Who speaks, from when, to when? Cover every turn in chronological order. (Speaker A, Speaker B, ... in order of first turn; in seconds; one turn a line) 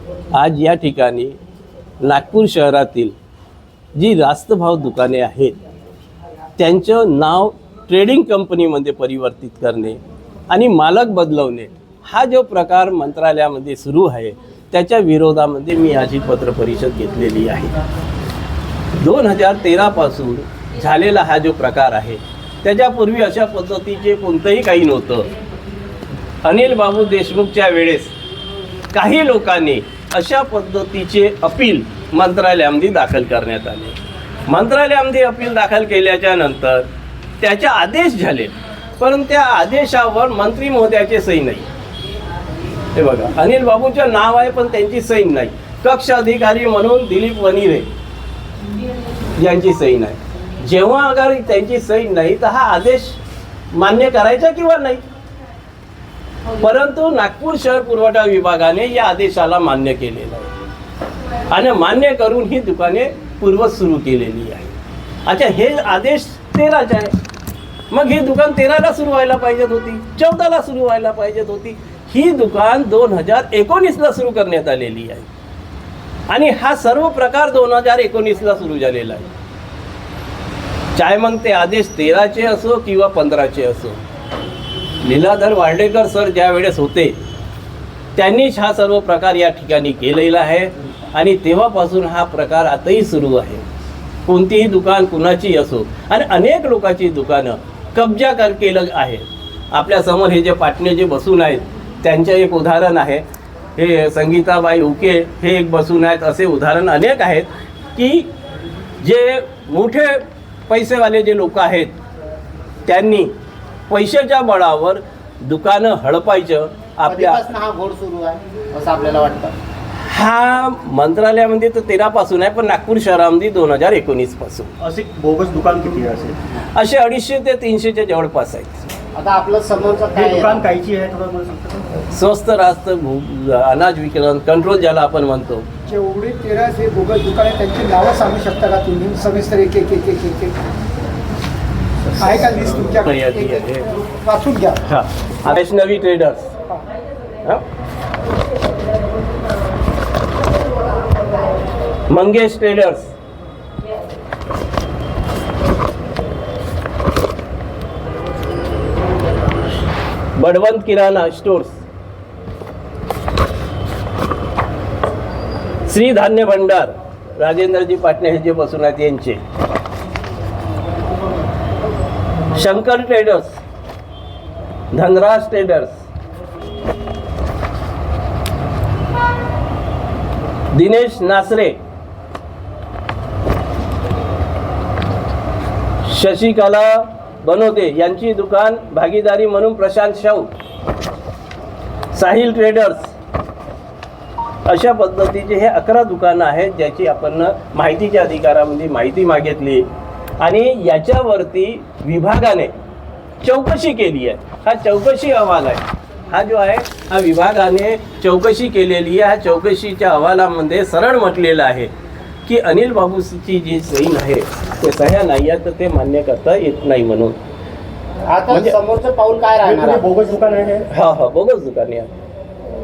Speaker A: 0.3-1.4
Speaker A: 2.0-3.1
Speaker A: 4.0-5.6
Speaker A: 6.6-17.8
Speaker A: 18.9-25.3
Speaker A: 26.4-28.1
Speaker A: 28.9-34.0
Speaker A: 34.5-36.9
Speaker A: 37.4-41.7
Speaker A: 42.9-47.9
Speaker A: 49.4-53.2
Speaker A: 53.7-55.0
Speaker A: 56.6-60.5
Speaker A: 61.5-67.1
Speaker A: 67.9-75.3
Speaker A: 76.3-79.3
Speaker A: 81.0-84.0
Speaker A: 85.0-87.2
Speaker A: 88.2-93.6
Speaker A: 94.3-103.2
Speaker A: 103.8-108.3
Speaker A: 109.0-111.9
Speaker A: 112.9-113.3
Speaker A: 113.9-117.5
Speaker B: 117.1-119.6
Speaker A: 120.0-124.7
Speaker C: 124.8-126.4
Speaker A: 126.7-128.9
Speaker B: 129.2-130.7
Speaker C: 130.1-131.9
Speaker A: 132.1-135.7
Speaker D: 135.9-140.6
Speaker A: 142.2-144.0
Speaker D: 142.2-144.8
Speaker A: 144.8-146.5
Speaker A: 152.1-153.1
Speaker A: 160.4-161.8
Speaker A: 165.9-169.4
Speaker A: 172.5-173.6
Speaker A: 174.9-176.0
Speaker A: 180.7-181.8
Speaker A: 186.1-190.5
Speaker A: 192.1-193.1
Speaker A: 194.7-199.9
Speaker A: 200.4-202.7
Speaker A: 203.4-211.9
Speaker A: 212.4-217.4
Speaker B: 218.3-220.1
Speaker A: 218.5-218.8
Speaker C: 219.7-220.9
Speaker A: 220.9-222.1